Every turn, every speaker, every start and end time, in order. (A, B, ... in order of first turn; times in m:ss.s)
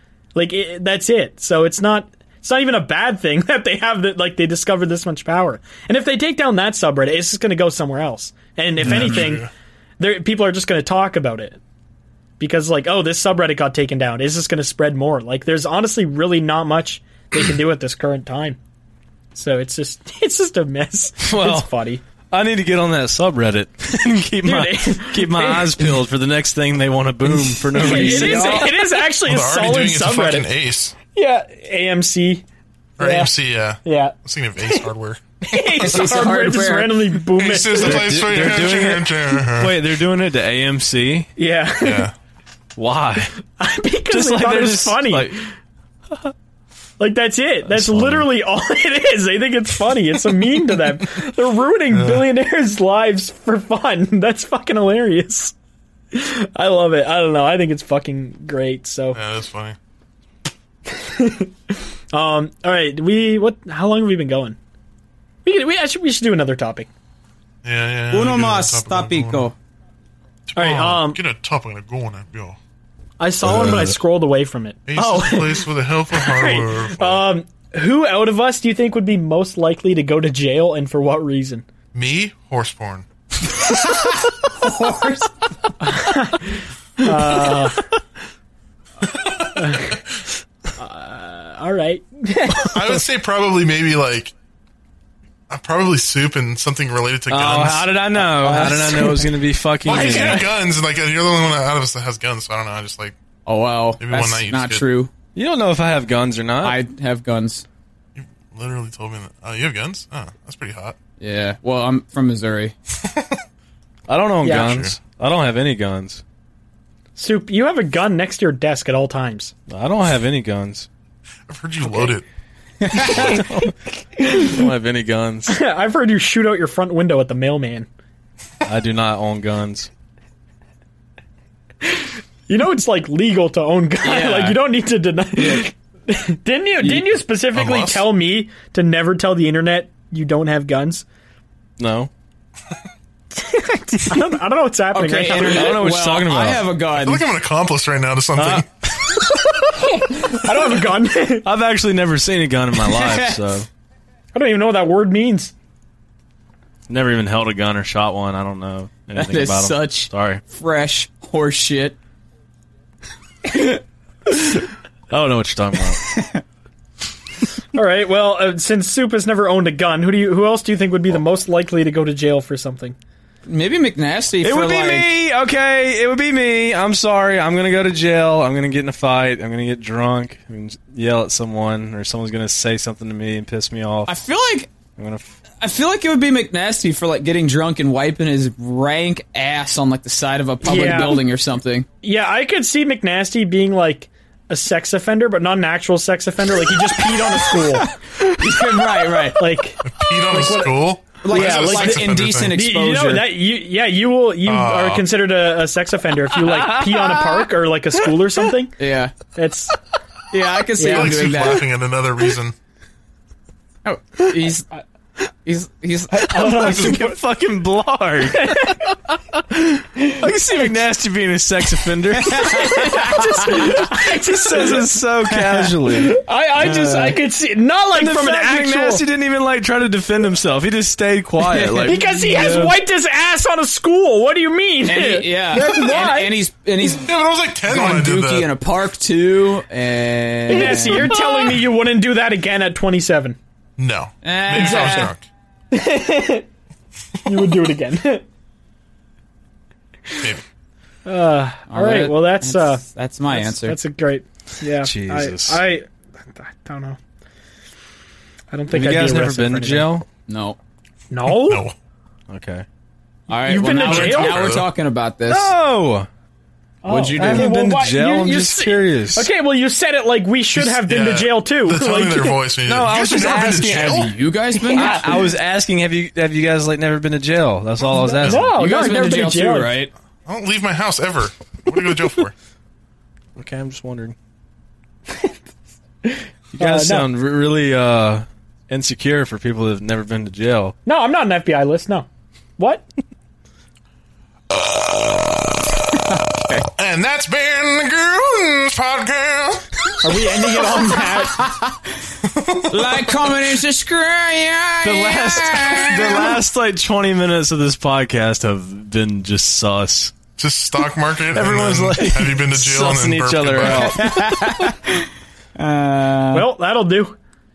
0:00.3-0:09.5 A
0:08.8-0:09.5 B
0:08.8-0:09.2 C
0:10.0-0:11.6 A
0:12.4-0:18.6 A
0:19.3-0:22.0 A
0:21.2-0:21.7 D
0:22.3-0:28.8 D
0:24.4-0:25.9 A
0:27.3-0:30.5 A
0:27.7-0:28.8 C
0:29.1-0:31.0 B
0:31.1-0:32.4 A
0:33.0-0:35.9 B
0:33.0-0:33.3 A
0:33.8-0:34.1 A
0:35.5-0:38.0 A
0:35.6-0:37.0 C
0:37.4-0:39.8 B
0:37.8-0:41.3 D
0:41.4-0:42.1 A
0:41.8-0:42.1 B
0:42.8-0:43.3 D
0:43.6-0:45.5 A
0:44.1-0:45.4 D
0:47.0-0:55.5 A
0:47.7-0:48.3 D
0:51.9-0:52.2 B
0:56.1-0:59.2 A
0:59.1-0:59.8 B
1:00.9-1:04.6 A
1:05.4-1:06.9 A
1:07.6-1:09.5 B
1:08.1-1:09.5 C
1:10.5-1:12.6 B
1:10.6-1:11.2 A
1:13.2-1:21.6 A
1:13.5-1:13.9 D
1:14.9-1:17.2 B
1:21.9-1:23.1 B
1:23.8-1:25.3 C
1:25.8-1:27.8 A
1:29.1-1:29.8 B
1:29.5-1:30.0 A
1:30.8-1:33.0 A
1:32.6-1:34.3 B
1:35.5-1:37.9 B
1:37.3-1:40.5 D
1:38.1-1:39.3 C
1:39.8-1:43.2 B
1:40.0-1:40.4 A
1:43.4-1:45.1 C
1:44.0-1:44.8 B
1:45.3-1:46.8 D
1:46.6-1:47.6 C
1:48.2-1:51.0 B
1:51.2-1:52.7 C
1:53.0-1:53.3 B
1:54.1-1:56.2 D
1:54.4-1:54.8 A
1:54.5-1:54.9 B
1:57.2-1:59.5 A
1:59.7-2:00.9 D
2:01.5-2:02.2 B
2:02.9-2:03.4 C
2:03.0-2:03.7 D
2:04.2-2:04.6 A
2:04.3-2:05.6 D
2:05.5-2:07.9 A
2:08.6-2:09.9 D
2:12.5-2:21.0 A
2:14.0-2:14.7 C
2:15.4-2:15.7 C
2:16.8-2:17.1 C
2:17.5-2:18.0 B
2:21.8-2:22.1 D
2:23.4-2:25.8 A
2:24.9-2:27.2 C
2:25.4-2:26.7 D
2:26.9-2:28.7 B
2:28.4-2:29.4 D
2:29.9-2:31.5 A
2:31.4-2:33.7 D
2:32.9-2:33.4 C
2:34.3-2:35.5 A
2:36.9-2:40.4 D
2:39.1-2:42.0 C
2:43.4-2:43.8 C
2:45.1-2:46.1 D
2:45.9-2:46.4 C
2:47.7-2:53.0 A
2:53.4-2:55.2 C
2:54.4-3:04.2 D
3:04.1-3:04.7 C
3:05.0-3:05.4 D
3:05.6-3:11.8 C
3:10.6-3:11.2 A
3:12.0-3:17.9 A
3:17.0-3:19.5 C
3:19.4-3:28.7 A
3:19.8-3:22.5 B
3:21.2-3:23.3 C
3:24.4-3:25.1 B
3:28.8-3:29.2 C
3:29.3-3:29.8 A
3:30.3-3:31.7 C
3:30.8-3:31.6 A
3:30.9-3:32.6 B
3:33.8-3:34.7 C
3:35.3-3:37.1 C
3:36.2-3:37.1 A
3:36.2-3:38.9 D
3:38.4-3:38.8 A
3:39.6-3:46.2 D
3:40.0-3:40.2 A
3:42.2-3:44.0 C
3:42.6-3:44.8 A
3:45.3-3:45.7 C
3:46.1-3:49.0 A
3:46.6-3:47.2 C
3:47.9-3:52.7 D
3:51.4-3:52.6 C
3:51.8-3:56.4 A
3:54.8-3:57.1 C
3:57.0-3:58.5 B
3:57.6-4:01.5 C
4:00.5-4:03.4 A
4:03.8-4:05.2 B
4:04.2-4:05.1 C
4:04.5-4:05.1 A
4:05.7-4:06.5 A
4:07.2-4:08.2 A
4:11.0-4:17.0 A
4:11.7-4:13.8 C
4:14.8-4:15.6 D
4:18.5-4:19.9 A
4:18.7-4:20.1 D
4:20.3-4:20.6 C
4:21.1-4:21.6 A
4:21.2-4:21.7 B
4:22.3-4:22.6 D
4:23.3-4:25.5 C
4:23.4-4:24.5 A
4:23.8-4:24.7 B
4:25.3-4:26.1 D
4:26.8-4:32.4 A
4:26.8-4:27.6 C
4:27.1-4:29.3 D
4:30.5-4:34.1 B
4:32.6-4:34.1 D
4:33.1-4:35.4 C
4:34.7-4:38.5 D
4:34.8-4:35.1 A
4:38.0-4:39.8 A
4:38.2-4:38.5 B
4:38.5-4:39.9 C
4:40.2-4:42.3 B
4:43.4-4:44.1 D
4:46.0-4:47.1 A
4:46.6-4:50.7 D
4:50.8-4:52.8 A
4:54.5-4:55.7 B
4:56.1-4:56.7 C
4:56.8-4:59.7 B
5:00.0-5:01.5 A
5:01.4-5:01.8 C
5:02.2-5:03.0 B
5:02.7-5:06.4 C
5:04.8-5:10.1 D
5:10.4-5:14.1 B
5:11.3-5:14.5 D
5:13.9-5:15.0 C
5:15.6-5:16.5 C
5:16.3-5:17.2 A